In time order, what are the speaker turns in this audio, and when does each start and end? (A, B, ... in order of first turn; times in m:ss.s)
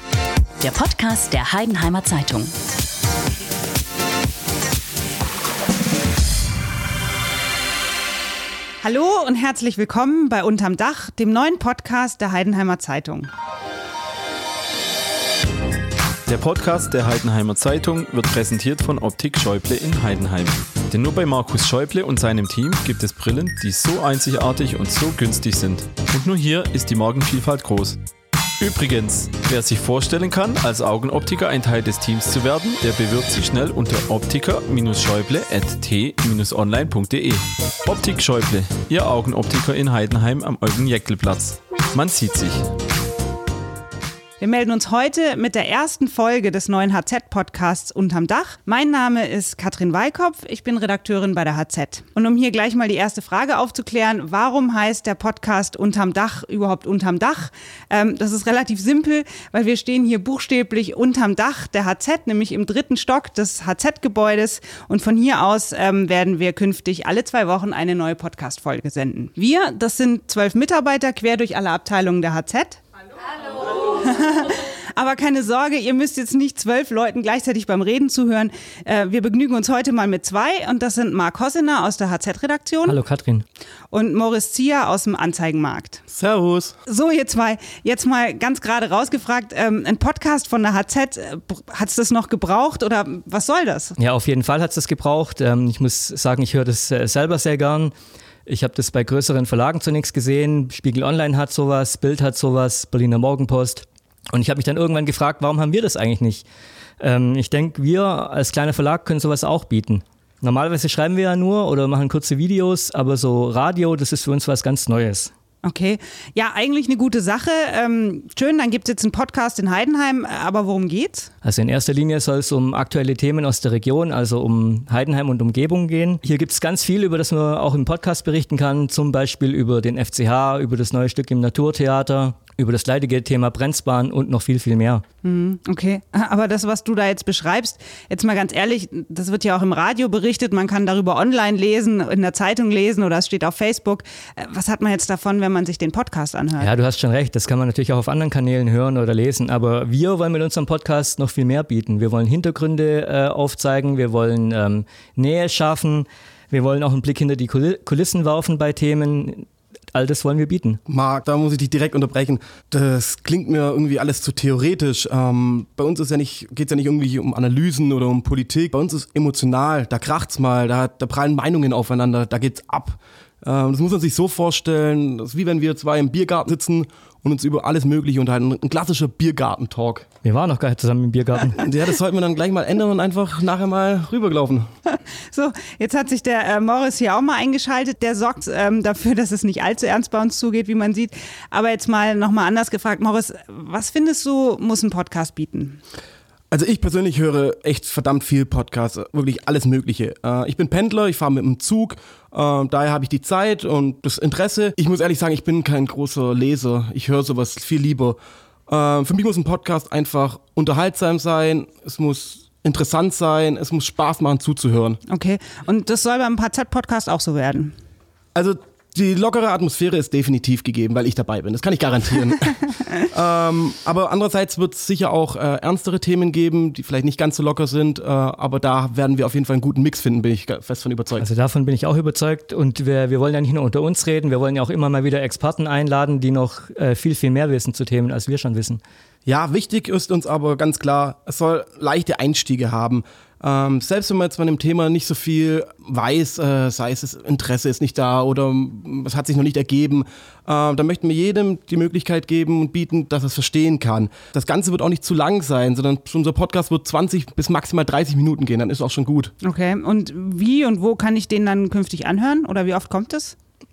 0:00.6-0:02.5 A
0:08.8-0:13.3 B
0:16.3-0:28.0 C
0:28.6-0:42.6 C
0:44.4-1:12.8 B
1:13.5-1:23.0 B
1:22.8-1:23.4 D
1:23.9-1:26.0 B
1:26.1-1:26.7 E
1:26.9-1:34.0 B
1:34.0-1:37.9 D
1:38.4-1:46.4 D
1:47.0-1:55.3 D
1:55.6-2:01.3 B
2:01.4-2:15.0 D
2:15.2-2:26.7 B
2:26.6-2:40.8 D
2:40.9-3:00.0 E
3:00.2-3:01.6 D
3:01.6-3:04.7 E
3:05.3-3:15.8 B
3:16.5-3:28.2 E
3:28.7-3:35.0 E
3:35.1-3:37.7 B
3:38.3-3:51.2 E
3:51.2-3:58.8 D
3:59.2-4:19.3 E
4:19.4-4:23.3 B